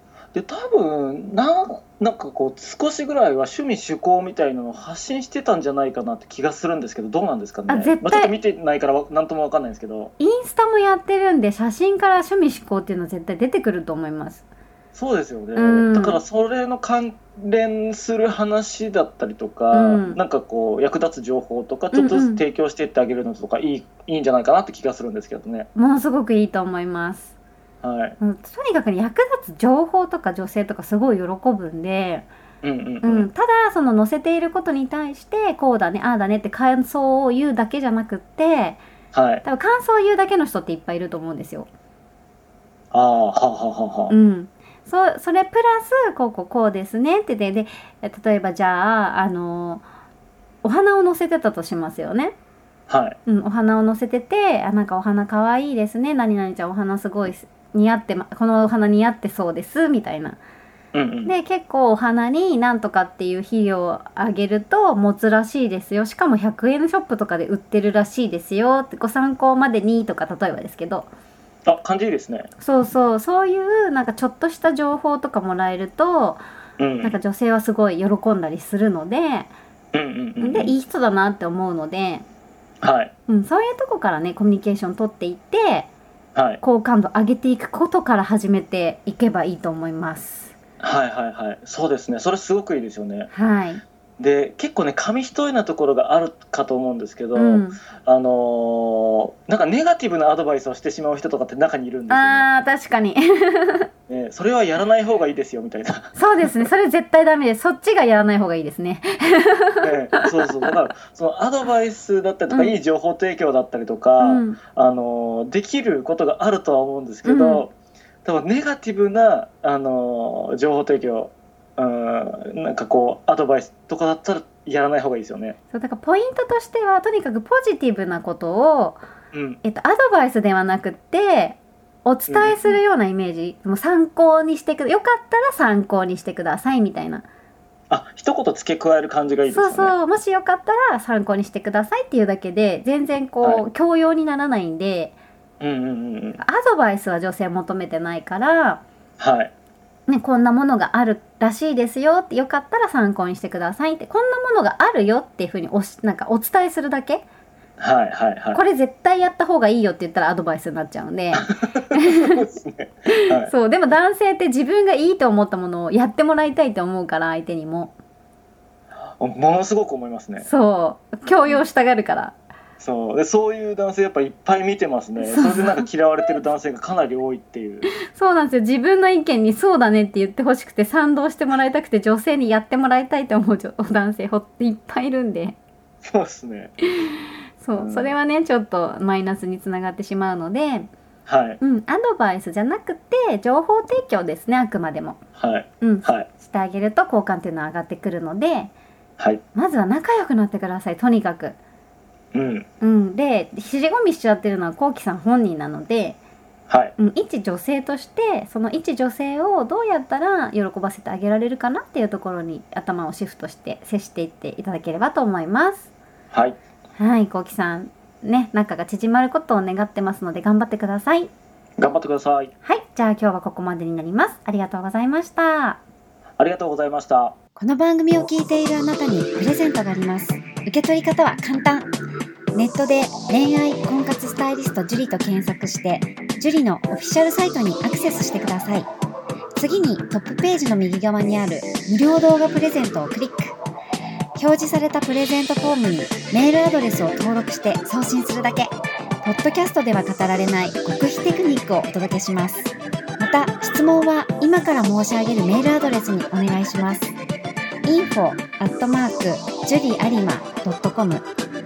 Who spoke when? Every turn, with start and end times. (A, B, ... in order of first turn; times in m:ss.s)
0:00.3-0:10.1 A
0:07.7-0:08.4 B
0:10.2-0:14.4 B
0:14.9-0:25.7 A
0:15.6-0:16.2 B
0:19.7-0:20.2 B
0:21.9-0:22.4 B
0:25.7-0:27.3 B
0:27.8-0:28.2 A
0:28.2-0:32.3 B
0:32.6-0:33.3 A
0:33.0-0:38.8 B
0:39.1-0:39.4 A
0:39.4-0:41.7 B
0:42.9-0:44.1 A
0:44.1-0:49.8 B
0:50.6-0:52.3 B
0:52.9-0:53.2 A
0:53.2-1:00.4 B
1:00.9-1:01.3 A
1:01.2-1:11.1 B
1:11.6-1:12.5 A
1:12.6-1:16.4 B
1:16.8-1:17.2 A
1:17.0-1:19.5 B
1:19.9-1:20.7 A
1:20.4-1:22.2 B
1:22.8-1:23.1 A
1:23.3-1:25.9 B
1:26.3-1:26.6 A
1:26.6-1:30.5 B
1:30.8-1:33.3 A
1:33.3-1:33.8 B
1:34.2-1:42.4 A
1:37.3-1:37.8 B
1:42.1-1:43.9 B
1:44.1-1:46.5 A
1:46.1-1:50.7 B
1:49.8-1:57.7 A
1:52.5-1:52.8 B
1:54.2-1:54.6 B
1:57.2-1:57.6 B
1:58.2-2:05.6 A
2:05.7-2:09.0 B
2:09.3-2:09.6 A
2:09.6-2:17.2 B
2:12.3-2:12.8 A
2:17.9-2:19.9 A
2:19.4-2:25.2 B
2:25.6-2:26.4 A
2:26.4-2:28.8 B
2:29.2-2:29.5 A
2:30.1-2:37.2 B
2:37.8-2:38.6 A
2:38.5-2:42.5 B
2:41.3-2:43.5 A
2:43.1-2:47.9 B
2:49.2-2:50.5 A
2:50.4-2:52.3 B
2:52.8-2:57.9 A
2:55.2-2:56.4 B
2:57.8-3:05.6 B
3:06.0-3:06.7 A
3:06.9-3:10.9 B
3:07.7-3:08.1 A
3:11.2-3:11.6 A
3:11.6-3:15.2 B
3:15.4-3:16.3 A
3:15.8-3:18.7 B
3:19.5-3:21.6 B
3:22.3-3:22.7 A
3:22.8-3:26.2 B
3:26.7-3:26.9 A
3:27.0-3:35.9 B
3:36.3-3:36.6 A
3:37.0-3:41.3 B
3:41.8-3:42.5 A
3:42.6-3:45.8 B
3:46.4-3:47.4 A
3:47.6-3:51.9 C
3:52.5-3:58.9 C
3:59.6-4:03.6 C
4:04.4-4:17.1 C
4:17.8-4:21.3 C